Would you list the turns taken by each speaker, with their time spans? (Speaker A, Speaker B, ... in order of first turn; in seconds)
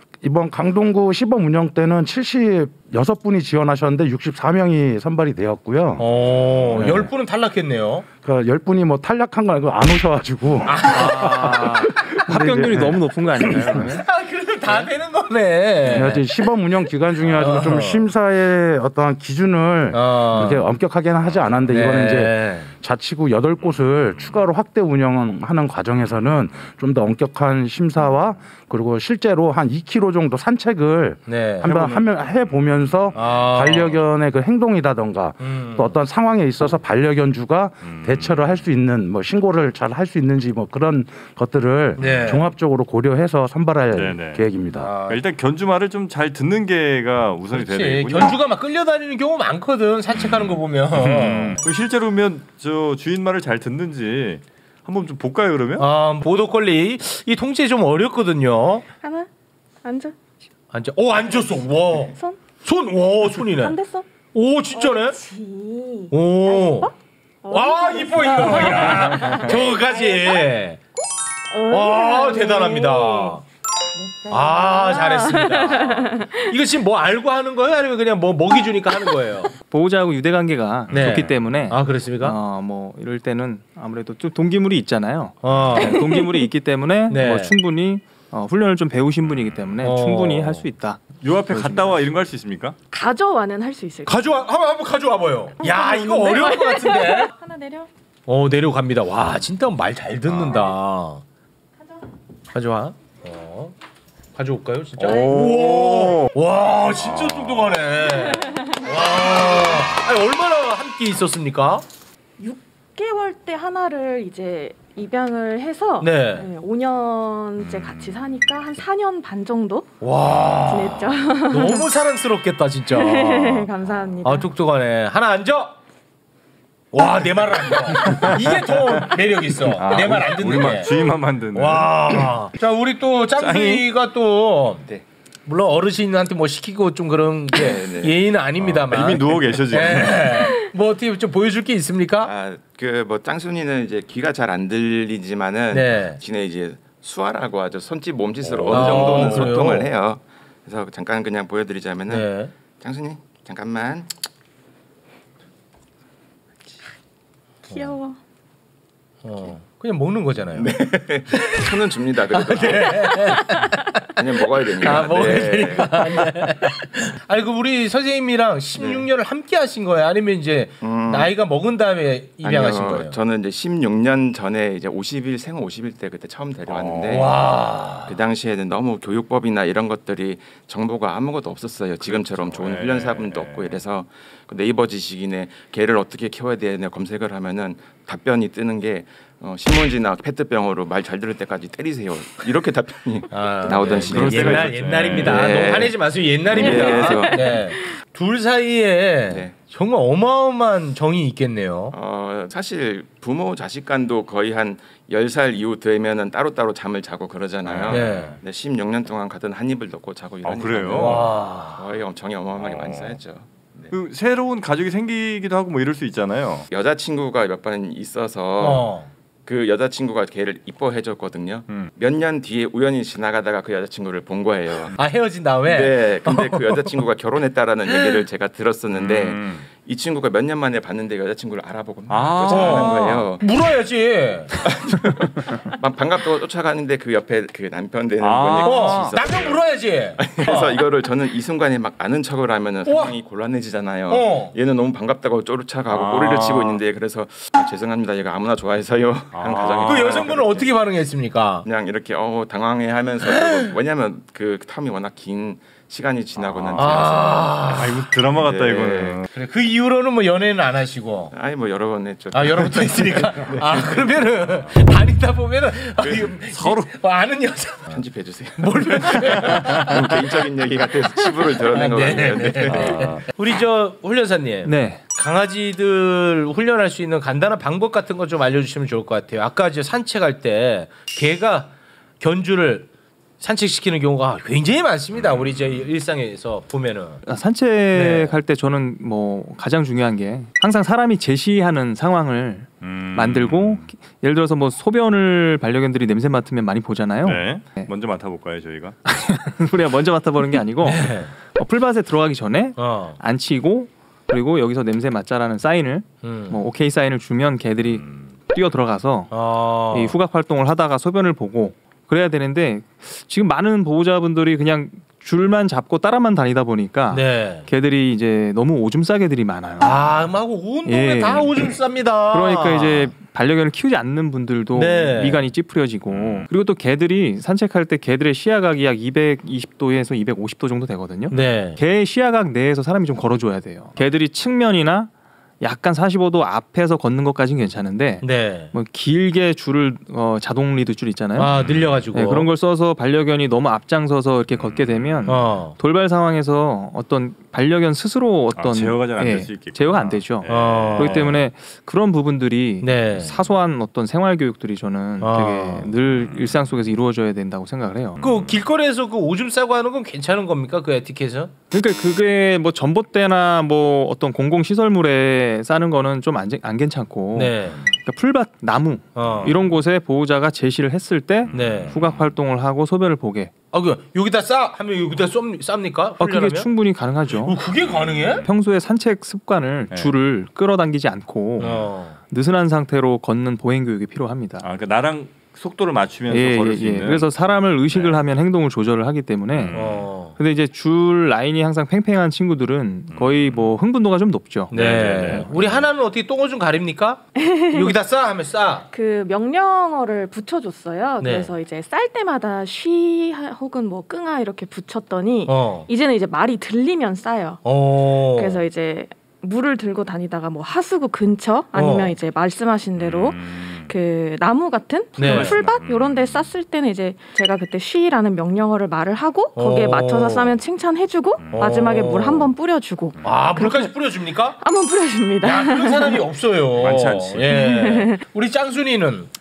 Speaker A: 0.2-6.0, 6.7-7.1, 8.2-13.9, 15.8-44.9
Speaker B: 6.0-8.1, 10.6-12.2, 13.4-16.5, 17.3-18.1, 19.9-20.7, 21.7-22.7, 31.3-32.0, 33.1-34.0, 35.4-35.9, 42.0-42.5, 44.8-45.2, 47.5-51.6, 55.8-58.9, 60.7-63.8, 64.3-65.2, 66.1-66.9, 67.5-70.8, 71.7-73.4, 74.3-79.5, 80.9-82.3, 85.4-86.0, 87.1-87.5, 89.8-90.6, 94.1-97.3, 98.3-101.2, 102.5-103.7, 104.3-111.8, 116.0-116.5, 120.0-123.7, 124.2-125.8, 126.9-130.9, 131.5-134.8, 135.5-142.3, 145.7-146.2, 148.7-149.9, 152.1-152.5, 157.7-157.9, 159.2-160.7, 161.3-161.8, 162.3-173.2, 177.1-178.2, 193.3-201.9, 207.9-208.3, 210.9-211.8, 218.6-219.1, 224.9-226.9, 227.9-228.2, 232.5-234.5, 238.5-240.8, 242.8-243.2, 244.1-244.5, 249.8-251.7, 253.2-253.7, 256.7-258.1, 259.3-261.3, 262.3-268.0, 268.6-270.5, 271.2-282.9, 283.4-287.2, 287.9-288.3, 300.8-301.3, 302.8-303.2, 306.2-306.6, 309.3-310.1, 317.1-317.7, 319.8-323.1, 324.7-325.4, 331.3-331.8, 338.2-338.7, 341.4-342.5, 345.3-345.8, 350.5-351.3, 352.8-353.3, 355.2-355.9, 358.2-361.5, 367.3-367.8, 369.1-369.5, 371.5-371.9, 373.7-376.7, 377.3-378.4, 381.6-382.2, 389.7-390.3, 394.7-398.9, 401.2-401.5, 405.5-405.9, 407.6-408.6, 411.7-412.1, 415.2-415.6, 419.6-420.6, 421.5-422.5, 423.2-424.6, 425.4-429.3
Speaker C: 6.2-6.8, 37.8-38.5, 43.9-44.4, 45.0-48.3, 50.2-55.9, 80.9-81.3, 91.2-92.8, 105.0-106.3, 117.8-118.1, 128.0-129.0, 129.7-132.3, 133.4-133.9, 138.6-140.5, 148.4-149.6, 176.7-177.3, 182.1-183.8, 194.1-195.7, 207.6-208.3, 210.4-211.3, 212.6-213.2, 213.9-216.7, 228.9-229.7, 232.1-233.3, 238.2-239.2, 245.9-246.8, 249.3-250.4, 256.4-259.3, 266.5-266.9, 272.6-273.3, 285.3-285.6, 292.8-293.9, 297.2-299.0, 307.9-308.3, 326.1-326.5, 341.5-342.0, 344.5-345.4, 348.5-351.4, 356.2-356.5, 358.2-358.5, 371.5-372.0, 377.8-378.5, 384.6-387.3, 387.9-388.2, 389.5-390.1, 393.1-393.7, 394.7-395.8, 413.0-413.9, 415.2-416.5, 421.4-421.7, 426.8-427.6
Speaker D: 10.9-14.1, 79.7-92.0, 274.6-275.0, 287.2-297.9, 299.1-309.3, 309.9-320.0, 320.9-321.7, 322.3-341.6, 342.1-358.2, 361.7-373.5, 376.2-377.6, 378.4-384.6, 386.3-394.7
Speaker E: 59.0-59.3, 59.8-60.2, 62.0-62.4, 63.4-64.1, 64.7-66.9, 67.4-70.5, 71.5-73.4, 73.9-76.5, 85.8-86.5, 92.9-94.2, 95.6-97.9, 105.0-105.4, 108.2-109.9, 112.4-120.0, 120.7-121.9, 122.9-124.5, 157.7-158.2, 196.6-197.9, 397.4-397.9, 398.9-407.6, 408.3-423.9, 424.6-426.2, 427.5-428.2
Speaker F: 137.5-138.2, 142.2-154.1, 160.5-163.3, 164.2-166.3, 168.8-169.1, 170.8-171.3, 172.4-177.4, 178.1-197.6, 199.3-199.5, 201.9-213.9, 216.7-218.9, 219.4-225.0, 225.7-233.4, 234.6-239.6, 240.2-250.7, 251.7-257.6, 258.3-259.2, 261.3-264.0, 266.0-266.3, 267.9-273.1